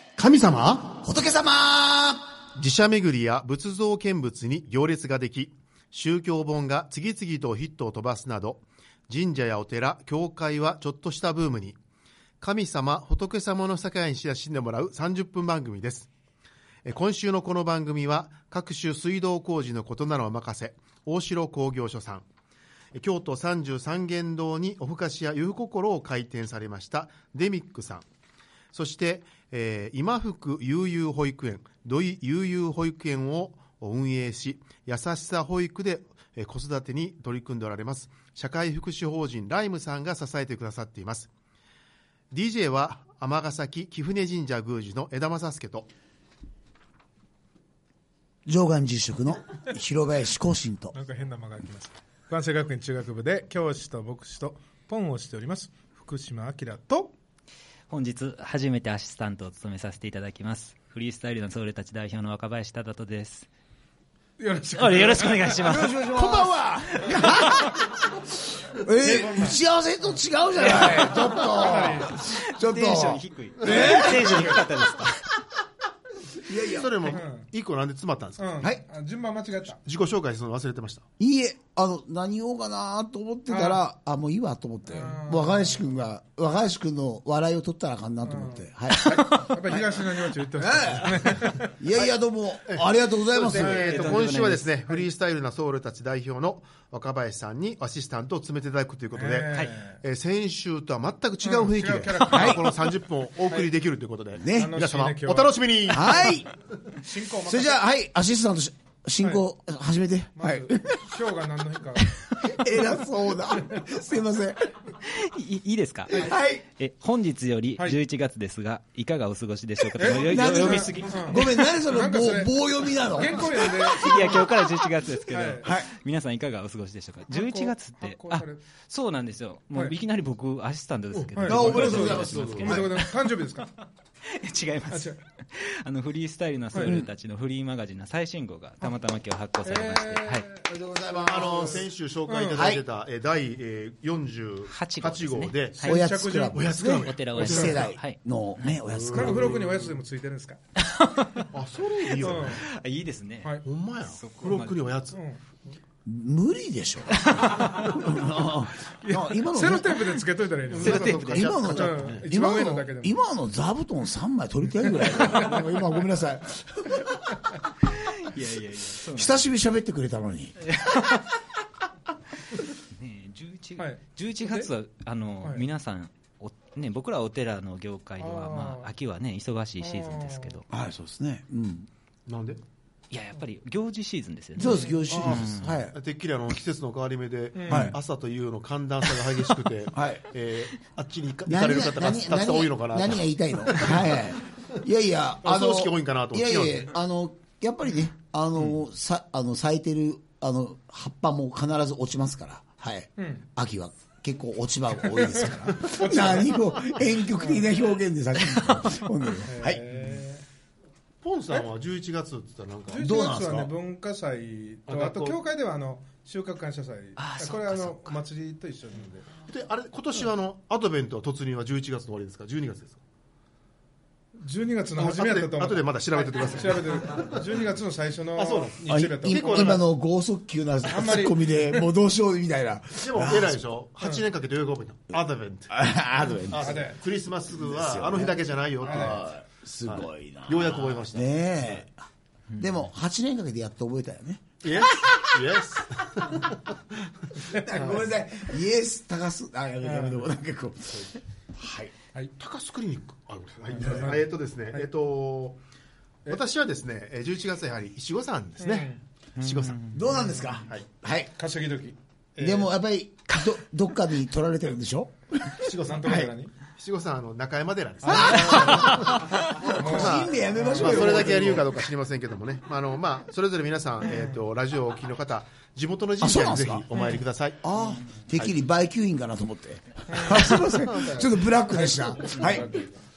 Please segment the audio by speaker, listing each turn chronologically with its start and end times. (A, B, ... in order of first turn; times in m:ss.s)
0:00.2-0:01.0 A
0:01.0-0:02.3 B
0:02.6-0:11.8 A
0:12.4-0:16.1 A
0:16.8-0:22.2 A
0:22.9-0:28.0 A
0:28.7-0:41.3 A
0:42.3-0:45.9 A
0:48.5-0:51.0 B
0:50.9-0:57.1 C
0:57.9-1:03.5 D
1:04.4-1:05.8 C
1:04.8-1:06.4 D
1:05.6-1:08.0 B
1:08.7-1:14.6 B
1:09.0-1:09.6 C
1:10.6-1:12.3 C
1:12.2-1:15.4 D
1:13.7-1:14.6 C
1:16.4-1:17.2 B
1:16.7-1:18.6 A
1:17.0-1:17.5 C
1:18.4-1:19.8 C
1:19.8-1:21.0 A
1:21.2-1:34.1 B
1:23.5-1:23.8 C
1:24.9-1:25.6 C
1:28.2-1:31.8 C
1:32.7-1:46.4 A
1:33.5-1:34.3 C
1:33.8-1:34.7 D
1:39.1-1:40.0 C
1:41.4-1:42.7 C
1:42.3-1:42.7 B
1:44.4-1:44.8 B
1:44.5-1:46.2 C
1:45.9-1:46.5 B
1:47.0-1:47.8 C
1:47.4-1:51.0 B
1:50.4-1:52.0 C
1:52.3-1:54.7 B
1:55.0-2:01.7 D
1:56.1-1:56.6 B
1:59.9-2:04.6 C
2:00.0-2:04.4 B
2:03.8-2:13.3 D
2:05.2-2:05.7 C
2:05.6-2:05.9 B
2:07.3-2:08.6 C
2:11.3-2:13.7 C
2:11.4-2:12.9 B
2:11.5-2:12.8 A
2:14.3-2:20.5 D
2:14.9-2:15.2 C
2:16.7-2:17.0 C
2:16.8-2:17.1 B
2:19.6-2:21.8 C
2:20.7-2:21.8 B
2:21.2-2:25.8 A
2:22.3-2:22.7 C
2:22.5-2:22.8 B
2:24.7-2:26.0 D
2:25.8-2:27.7 C
2:25.8-2:29.7 B
2:26.5-2:27.8 A
2:27.0-2:28.8 D
2:28.9-2:29.8 A
2:29.1-2:30.6 C
2:30.8-2:31.5 D
2:31.5-2:32.7 A
2:32.1-2:34.8 D
2:32.2-2:32.7 C
2:33.6-2:35.2 A
2:35.1-2:35.4 C
2:36.0-2:40.3 B
2:37.1-2:38.0 D
2:39.0-2:43.2 C
2:40.7-2:42.2 A
2:40.7-2:41.8 D
2:40.8-2:47.4 B
2:45.1-2:45.6 C
2:47.9-2:49.5 D
2:49.0-2:51.2 B
2:50.7-2:51.3 D
2:52.9-3:00.7 D
2:53.8-2:54.7 C
2:58.2-2:58.9 C
2:59.8-3:00.6 C
3:00.7-3:01.9 B
3:02.3-3:02.6 A
3:03.1-3:05.8 D
3:04.6-3:06.0 B
3:04.6-3:05.5 C
3:05.9-3:14.2 A
3:07.6-3:07.9 C
3:07.7-3:08.0 B
3:09.9-3:10.2 B
3:11.5-3:29.8 B
3:15.4-3:16.9 A
3:23.2-3:23.4 C
3:25.9-3:26.6 C
3:27.4-3:27.7 C
3:29.5-3:30.4 C
3:31.2-3:33.0 A
3:32.9-3:39.3 C
3:33.0-3:33.7 B
3:34.9-3:35.4 A
3:37.2-3:38.2 D
3:39.5-3:43.0 A
3:44.4-3:49.8 C
3:45.0-3:47.4 A
3:48.4-3:49.8 A
3:48.9-3:53.6 B
3:50.8-3:51.8 C
3:53.0-3:55.8 A
3:55.7-3:57.0 B
3:56.5-4:01.8 A
3:56.6-3:57.0 C
3:57.5-4:01.9 B
3:58.8-3:59.2 C
4:02.6-4:05.6 B
4:04.6-4:06.7 A
4:07.5-4:11.9 B
4:07.6-4:07.9 C
4:09.8-4:10.2 C
4:12.4-4:15.6 A
4:13.7-4:14.2 C
4:16.3-4:19.9 A
4:18.6-4:19.0 C
4:19.4-4:20.1 D
4:19.9-4:21.3 B
4:20.1-4:20.5 C
4:21.4-4:22.7 C
4:22.4-4:25.6 B
4:25.6-4:26.5 C
4:25.7-4:37.7 A
4:28.0-4:31.7 B
4:28.1-4:31.5 C
4:34.0-4:34.4 C
4:36.2-4:36.9 B
4:36.9-4:37.2 C
4:37.6-4:42.7 B
4:40.1-4:43.0 C